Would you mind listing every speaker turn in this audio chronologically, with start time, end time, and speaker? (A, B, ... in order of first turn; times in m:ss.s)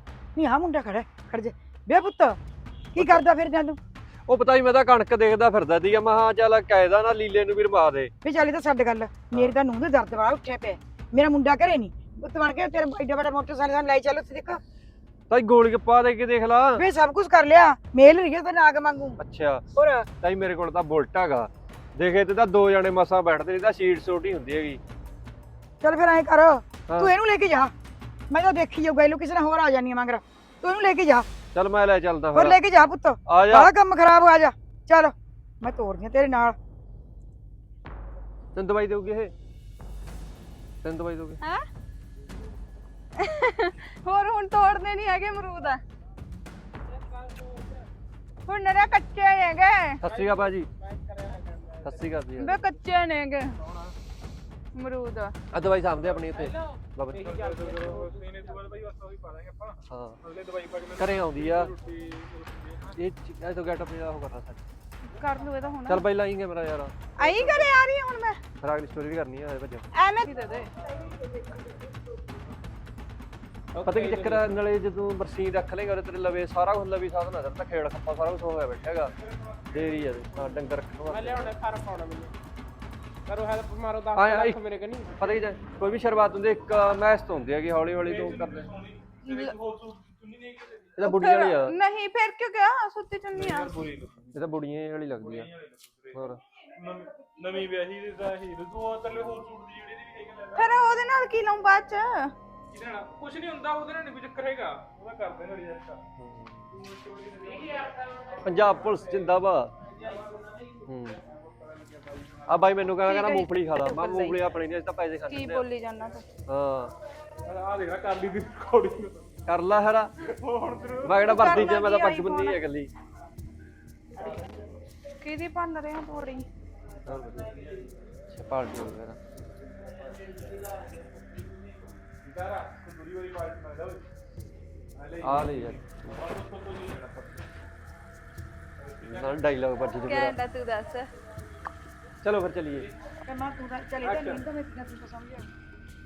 0:00.4-0:02.4 A
0:02.9-0:03.8 A
0:04.3-0:08.1 B
0:08.2-0:14.6 A
0:15.3-0:16.8 B
0:16.8-0:19.2 A
0:19.2-0:19.6 B
0:19.7-0:20.1 A
0:20.2-0:24.8 B
0:25.8-0:27.7 A
0:28.3-0:31.3 A
0:31.5-0:32.6 B
0:32.3-0:36.6 A
0:33.3-0:33.7 B
0:38.5-0:39.3 B
0:40.8-0:41.4 B
0:41.4-0:41.7 C
0:43.2-0:45.8 C
0:47.1-0:47.9 D
0:48.5-0:50.0 C
0:50.0-0:50.7 B
0:50.0-0:52.1 D
0:51.8-0:52.6 B
0:52.4-0:53.6 C
0:54.8-0:55.4 C
0:55.5-0:57.2 B
0:56.3-0:58.5 D
0:57.2-1:03.0 E
0:59.9-1:00.2 B
1:01.0-1:01.7 B
1:03.0-1:04.6 B
1:05.1-1:06.0 C
1:05.9-1:06.9 B
1:07.2-1:08.4 C
1:08.6-1:09.9 B
1:09.9-1:10.7 C
1:13.8-1:14.5 D
1:13.8-1:19.1 B
1:19.2-1:20.2 E
1:19.7-1:21.5 B
1:21.1-1:22.3 D
1:23.3-1:25.3 D
1:24.2-1:24.6 B
1:25.1-1:28.7 B
1:28.0-1:31.1 E
1:29.2-1:29.5 C
1:31.0-1:31.8 B
1:31.0-1:33.7 C
1:33.3-1:34.4 E
1:34.3-1:35.5 B
1:35.2-1:40.8 E
1:36.1-1:36.4 B
1:40.6-1:42.4 C
1:42.7-1:46.0 E
1:46.2-1:46.7 B
1:46.8-1:47.9 E
1:48.4-1:49.7 B
1:50.8-1:51.2 B
1:52.5-1:55.7 B
1:53.0-1:54.4 C
1:55.3-1:56.3 C
1:56.5-1:56.9 B
1:57.4-1:59.3 E
1:59.5-2:00.3 B
2:00.3-2:01.3 E
2:01.0-2:02.9 B
2:01.2-2:02.6 C
2:05.2-2:06.5 C
2:07.0-2:07.5 B
2:08.3-2:09.2 B
2:12.2-2:14.0 E
2:15.0-2:17.5 E
2:15.2-2:15.8 B
2:18.8-2:19.4 E
2:19.0-2:20.4 B
2:20.0-2:21.1 C
2:22.2-2:22.9 B
2:23.2-2:25.5 A
2:24.0-2:24.4 E